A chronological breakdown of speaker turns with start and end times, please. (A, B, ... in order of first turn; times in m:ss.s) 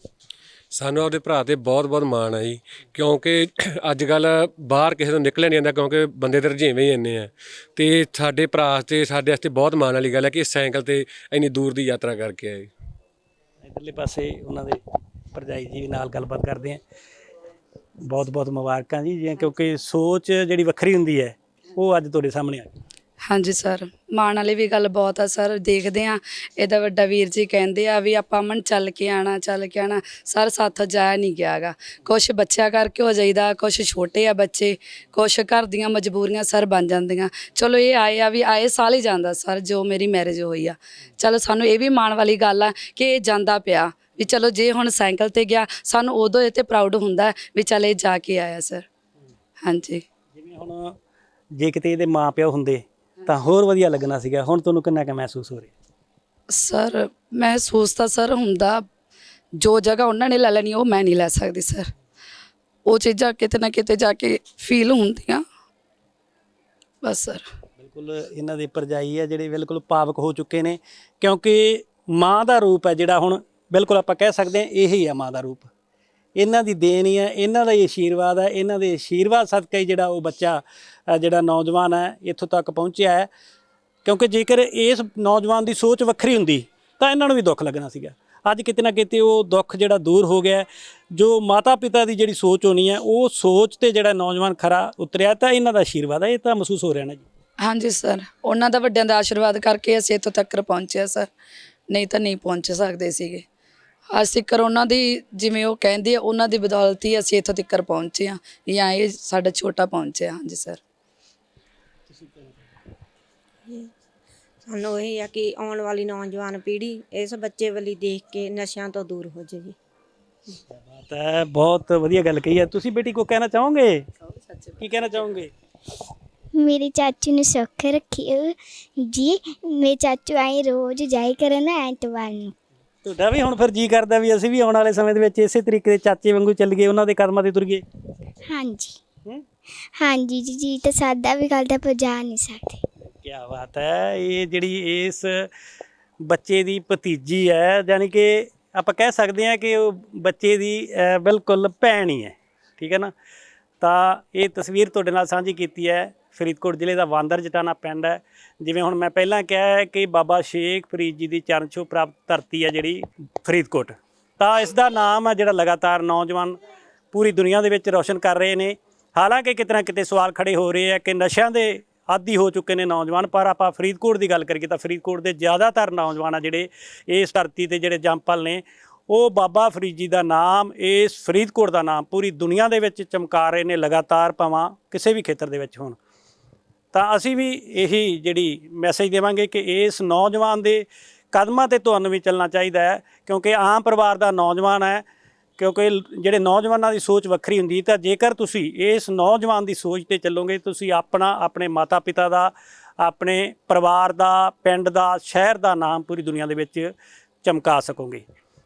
0:00.7-0:12.7 A
0:13.6-0:14.8 B
0:15.3-0:16.8 B
0:18.0-0:22.7 B
0:23.2-0:48.8 C
0:49.6-0:50.0 C
0:50.3-0:51.0 B
0:51.5-0:55.7 B
0:56.5-0:58.8 C
0:59.6-1:01.9 C
1:02.9-1:05.4 C
1:07.0-1:07.4 C
1:07.8-1:15.7 B
1:16.4-1:23.3 B
1:24.0-1:37.2 B
1:37.6-1:41.3 C
1:41.9-1:43.4 C
1:44.1-1:50.8 C
1:52.2-1:52.5 B
1:53.6-1:53.9 D
1:54.6-1:59.8 D
2:00.9-2:04.0 B
2:04.5-2:04.8 C
2:04.8-2:05.5 B
2:06.5-2:12.5 E
2:13.0-2:17.8 B
2:18.4-2:19.0 E
2:20.0-2:22.8 E
2:23.0-2:25.5 B
2:26.2-2:33.1 B
2:33.8-2:46.6 B
2:47.1-3:06.0 B
3:06.9-3:15.0 B
3:15.6-3:26.9 B
3:27.4-3:28.2 B